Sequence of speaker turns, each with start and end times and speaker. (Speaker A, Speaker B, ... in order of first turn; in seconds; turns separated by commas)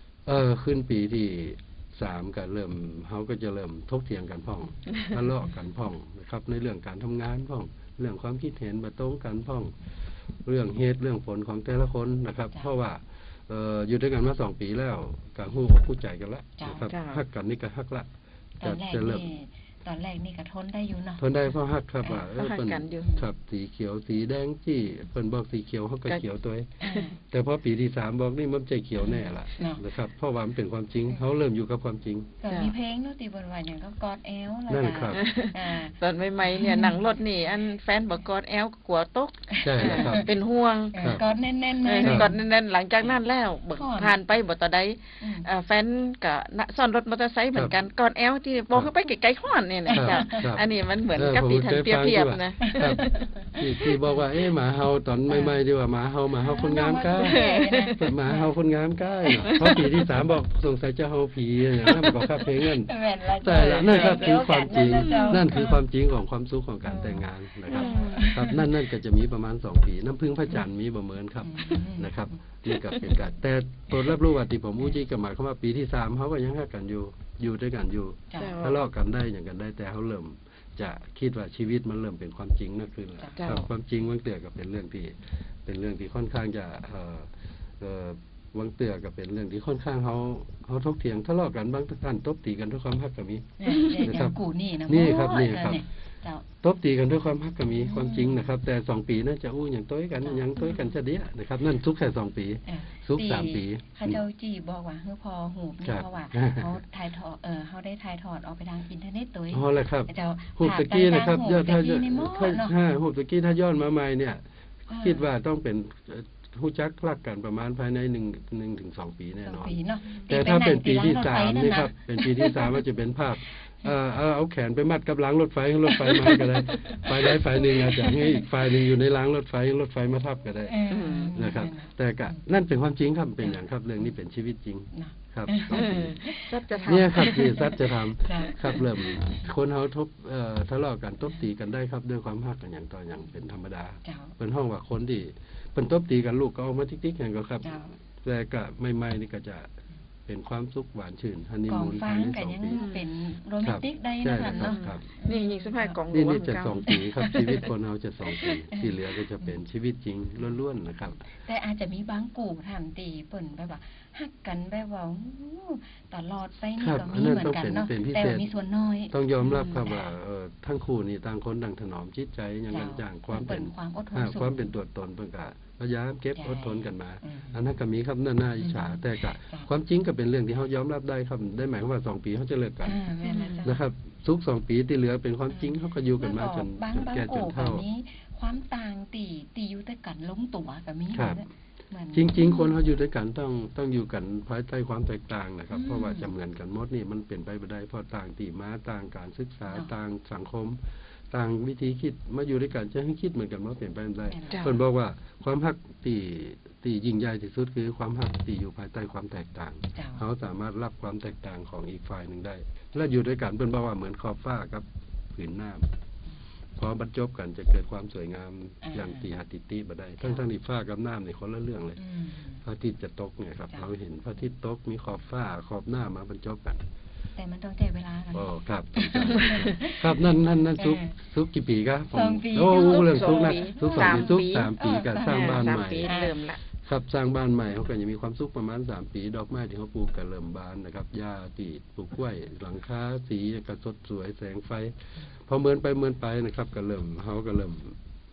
Speaker A: 0.2-9.7, Speaker A: 10.4-18.1, Speaker B: 16.6-16.9, Speaker C: 16.9-17.2, Speaker B: 18.6-21.2, Speaker A: 18.6-19.3, Speaker A: 21.2-26.7, Speaker C: 22.2-23.1, Speaker B: 23.0-23.3, Speaker B: 26.8-27.1, Speaker C: 26.8-27.1, Speaker A: 27.2-32.3, Speaker B: 29.1-29.8, Speaker B: 32.4-37.0, Speaker C: 32.5-32.7, Speaker A: 34.7-35.2, Speaker C: 35.1-41.2, Speaker B: 39.5-40.3, Speaker A: 39.6-40.3, Speaker B: 40.9-42.4, Speaker A: 41.0-41.2, Speaker C: 41.8-53.1, Speaker A: 42.0-42.3, Speaker B: 43.7-44.2, Speaker B: 45.2-45.5, Speaker A: 47.5-47.8, Speaker B: 49.9-50.5, Speaker A: 49.9-95.8, Speaker B: 52.6-54.1, Speaker B: 55.3-55.6, Speaker B: 56.4-58.5, Speaker C: 57.2-58.0, Speaker C: 59.4-60.0, Speaker B: 62.6-65.8, Speaker C: 63.5-65.4, Speaker B: 66.8-68.6, Speaker C: 67.7-68.6, Speaker B: 71.4-72.2, Speaker C: 72.7-73.1, Speaker B: 78.3-78.6, Speaker C: 78.3-78.8, Speaker C: 83.4-83.7, Speaker B: 93.6-96.4, Speaker C: 93.7-94.0, Speaker A: 96.6-104.2, Speaker B: 97.7-98.5, Speaker B: 100.2-100.8, Speaker B: 102.7-112.7, Speaker A: 105.8-106.8, Speaker A: 109.5-114.4, Speaker B: 114.9-115.2, Speaker A: 114.9-136.2, Speaker B: 119.4-122.8, Speaker B: 126.7-128.5, Speaker B: 130.7-132.4, Speaker C: 130.9-131.4, Speaker B: 134.9-139.4, Speaker C: 135.7-137.7, Speaker A: 136.8-149.7, Speaker B: 144.0-144.3, Speaker B: 147.6-147.9, Speaker A: 150.2-152.8, Speaker B: 151.7-156.0, Speaker C: 152.7-153.1, Speaker A: 153.6-155.1, Speaker C: 154.5-156.9, Speaker A: 156.1-161.2, Speaker B: 156.8-157.6, Speaker B: 158.7-159.5, Speaker B: 161.2-170.1, Speaker A: 166.8-168.4, Speaker A: 169.1-183.0, Speaker B: 172.7-174.7, Speaker B: 176.4-177.6, Speaker B: 178.6-179.7, Speaker B: 182.8-183.8, Speaker C: 183.2-183.6, Speaker A: 183.6-187.8, Speaker B: 185.5-192.7, Speaker A: 191.1-191.4, Speaker A: 192.1-215.9, Speaker B: 195.7-196.3, Speaker B: 204.2-204.7, Speaker C: 204.5-204.8, Speaker B: 209.9-210.2, Speaker A: 216.8-222.0, Speaker B: 218.8-219.2, Speaker B: 222.0-222.6, Speaker A: 222.6-226.8, Speaker B: 227.3-231.1, Speaker A: 228.3-236.1, Speaker B: 232.1-236.4, Speaker C: 232.7-236.6, Speaker A: 236.7-248.0